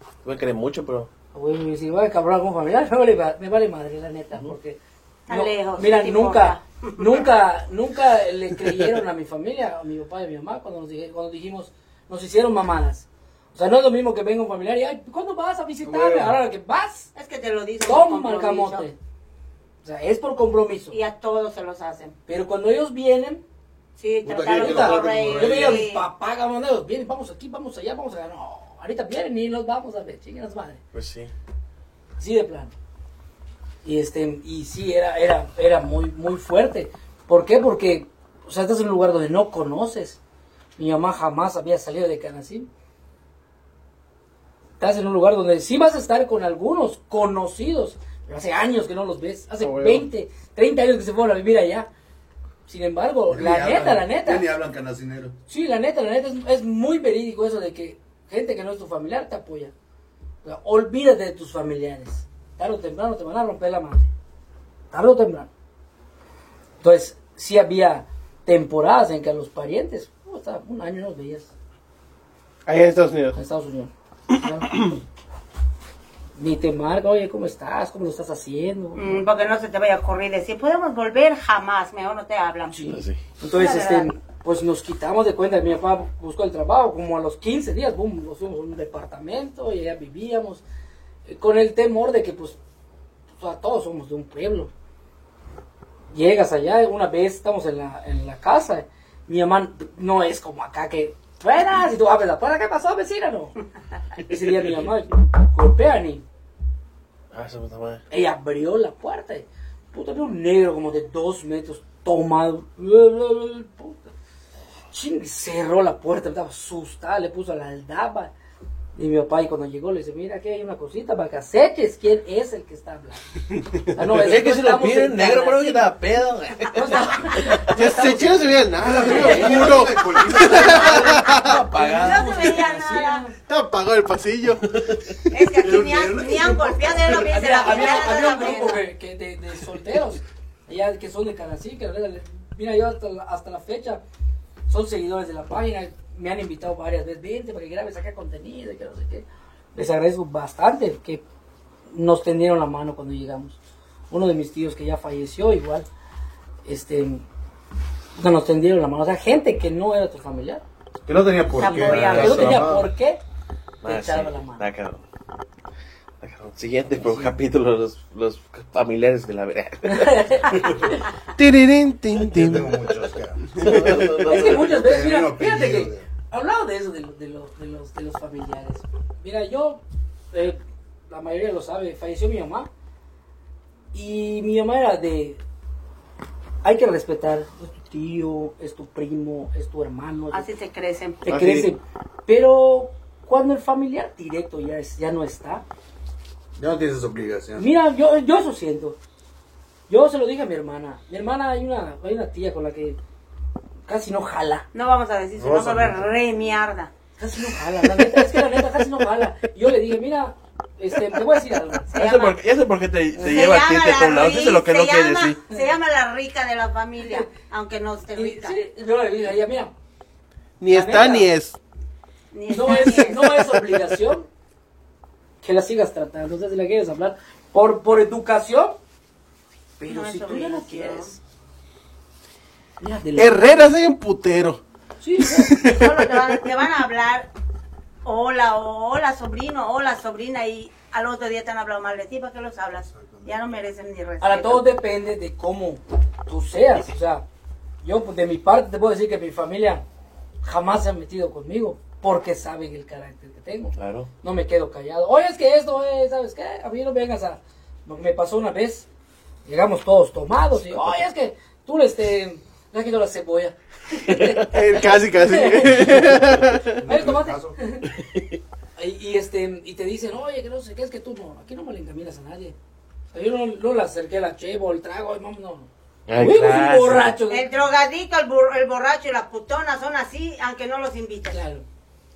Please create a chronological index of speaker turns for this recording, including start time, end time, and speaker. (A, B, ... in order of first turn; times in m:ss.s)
0:00.2-0:01.1 A
0:01.3-0:04.8 B
0:05.3-0:07.2 C
0:05.3-0:17.1 B
0:15.8-0:16.4 D
0:17.1-0:18.9 C
0:17.8-0:19.0 B
0:19.8-0:21.0 B
0:20.9-0:22.2 C
0:22.3-0:23.4 B
0:24.0-0:26.0 C
0:24.2-0:25.9 D
0:24.5-0:30.8 B
0:30.9-0:31.3 A
0:32.2-0:32.7 B
0:33.8-0:40.2 B
0:40.8-0:42.7 B
0:44.8-0:51.9 B
0:49.6-0:50.1 E
0:52.7-0:54.5 B
0:53.3-0:55.3 D
0:55.5-0:59.7 B
1:00.4-1:04.1 B
1:04.9-1:05.5 B
1:06.8-1:11.5 B
1:12.6-1:13.4 E
1:13.3-1:15.0 B
1:16.4-1:19.2 B
1:18.9-1:22.9 C
1:22.7-1:30.6 B
1:22.9-1:23.2 A
1:23.5-1:24.1 C
1:31.2-1:32.6 B
1:33.4-1:34.7 B
1:36.1-1:43.5 B
1:44.2-1:46.2 B
1:47.3-1:48.0 A
1:48.1-1:54.1 B
1:54.9-1:58.3 B
1:59.0-2:03.3 B
2:03.7-2:04.0 E
2:03.9-2:05.9 B
2:04.2-2:07.0 A
2:06.6-2:13.3 B
2:07.7-2:11.6 E
2:08.9-2:11.0 D
2:09.2-2:12.5 A
2:11.9-2:13.2 C
2:13.5-2:14.6 E
2:14.7-2:15.0 A
2:15.3-2:18.8 C
2:15.6-2:18.0 D
2:17.1-2:24.0 B
2:24.7-2:31.2 B
2:31.9-2:33.6 B
2:34.1-2:35.9 B
2:36.6-2:37.2 B
2:38.2-2:40.6 B
2:41.0-2:42.9 D
2:41.5-2:42.7 C
2:41.6-2:43.2 B
2:43.8-2:44.6 B
2:43.8-2:45.0 A
2:46.2-2:50.3 A
2:49.8-2:51.0 B
2:50.5-2:50.8 D
2:51.4-2:52.8 E
2:52.2-2:56.1 D
2:53.5-2:54.9 A
2:53.7-2:54.0 E
2:54.2-3:02.7 B
3:03.9-3:05.4 B
3:06.6-3:10.5 B
3:10.3-3:11.2 C
3:11.2-3:15.6 B
3:11.3-3:11.7 E
3:16.6-3:17.7 D
3:17.6-3:19.0 B
3:19.9-3:23.0 B
3:23.9-3:24.7 B
3:24.7-3:26.9 C
3:25.4-3:26.1 D
3:27.2-3:32.0 B
3:31.9-3:32.4 C
3:31.9-3:35.4 A
3:33.2-3:38.6 C
3:37.0-3:37.3 B
3:38.2-3:39.7 B
3:40.6-3:41.6 E
3:40.7-3:41.3 B
3:42.3-3:43.4 C
3:42.5-3:44.3 B
3:45.4-3:48.8 B
3:49.8-3:51.2 B
3:49.9-3:51.1 C
3:52.8-3:53.5 B
3:53.2-3:54.6 E
3:55.0-3:55.7 B
3:55.2-3:56.4 E
3:55.6-3:57.3 C
3:58.0-4:04.6 C
4:02.8-4:03.4 D
4:04.2-4:07.2 B
4:07.8-4:09.8 B
4:10.4-4:18.9 B
4:13.8-4:14.1 A
4:19.4-4:26.2 B
4:24.0-4:24.5 A
4:24.5-4:26.8 E
4:26.7-4:27.6 D
4:26.8-4:28.0 B
4:27.9-4:28.4 A
4:28.8-4:32.5 B
4:33.1-4:37.5 B
4:36.1-4:37.1 A
4:37.3-4:41.4 C
4:41.3-4:41.6 B